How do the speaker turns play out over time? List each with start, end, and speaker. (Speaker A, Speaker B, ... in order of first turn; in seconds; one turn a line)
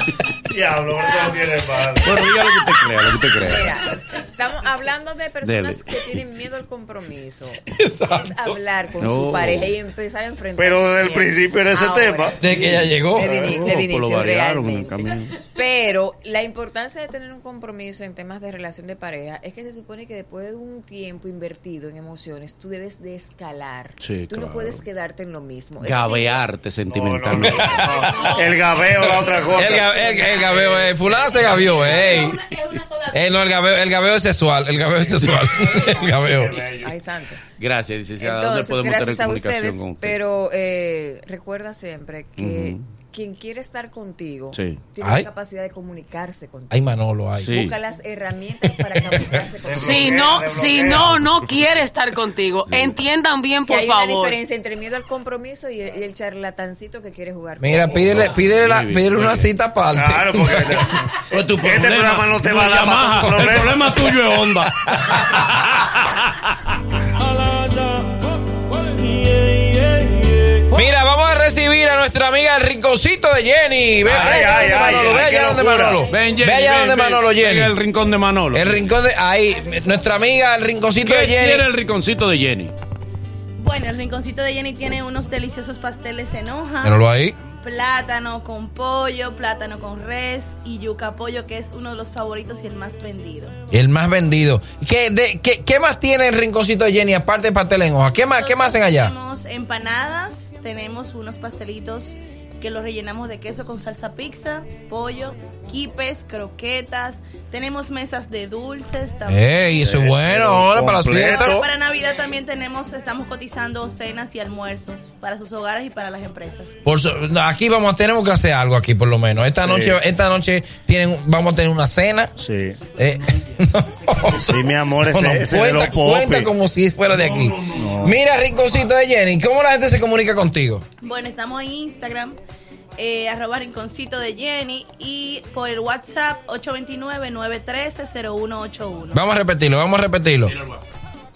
Speaker A: 0.5-2.2
Speaker B: 2.0-3.7
Speaker C: 3.4-7.6
Speaker B: 5.4-6.2
Speaker D: 7.7-8.4
Speaker C: 8.1-26.5
Speaker B: 9.0-9.7
Speaker A: 10.6-12.4
Speaker D: 12.4-13.3
Speaker B: 12.5-12.9
Speaker A: 13.2-13.6
Speaker B: 13.5-15.4
Speaker B: 24.0-24.8
Speaker B: 25.8-27.9
Speaker A: 26.9-29.9
Speaker C: 27.5-28.6
Speaker E: 27.9-33.3
Speaker D: 29.5-32.4
Speaker C: 30.1-30.7
Speaker A: 30.4-31.4
Speaker D: 33.1-36.6
Speaker C: 35.3-36.2
Speaker A: 36.3-36.9
Speaker C: 36.8-37.4
Speaker B: 37.6-40.2
Speaker C: 38.2-46.9
Speaker B: 42.4-42.8
Speaker B: 44.5-44.8
Speaker D: 45.0-45.3
Speaker D: 46.7-47.5
Speaker B: 47.4-47.8
Speaker C: 47.5-50.4
Speaker A: 49.6-51.2
Speaker E: 49.8-54.4
Speaker B: 51.0-51.9
Speaker B: 52.7-53.0
Speaker C: 53.7-58.3
Speaker D: 57.6-61.0
Speaker B: 58.0-59.5
Speaker A: 59.9-63.9
Speaker B: 61.3-66.3
Speaker D: 64.9-65.2
Speaker B: 67.3-68.2
Speaker B: 68.7-70.8
Speaker D: 70.7-77.8
Speaker B: 74.1-74.5
Speaker A: 74.1-76.0
Speaker B: 76.0-78.9
Speaker D: 78.5-81.7
Speaker B: 81.0-82.7
Speaker F: 83.6-87.0
Speaker D: 86.8-87.3
Speaker F: 87.6-93.5
Speaker D: 93.7-99.2
Speaker F: 98.3-109.7
Speaker D: 109.3-111.7
Speaker A: 109.9-111.7
Speaker F: 111.1-116.7
Speaker D: 116.8-122.3
Speaker A: 119.6-120.0
Speaker A: 122.4-122.8
Speaker D: 123.0-130.8
Speaker A: 124.3-126.5
Speaker B: 127.4-127.8
Speaker A: 127.8-128.2
Speaker F: 131.0-132.4
Speaker F: 133.0-139.2
Speaker D: 139.1-140.5
Speaker B: 140.5-140.8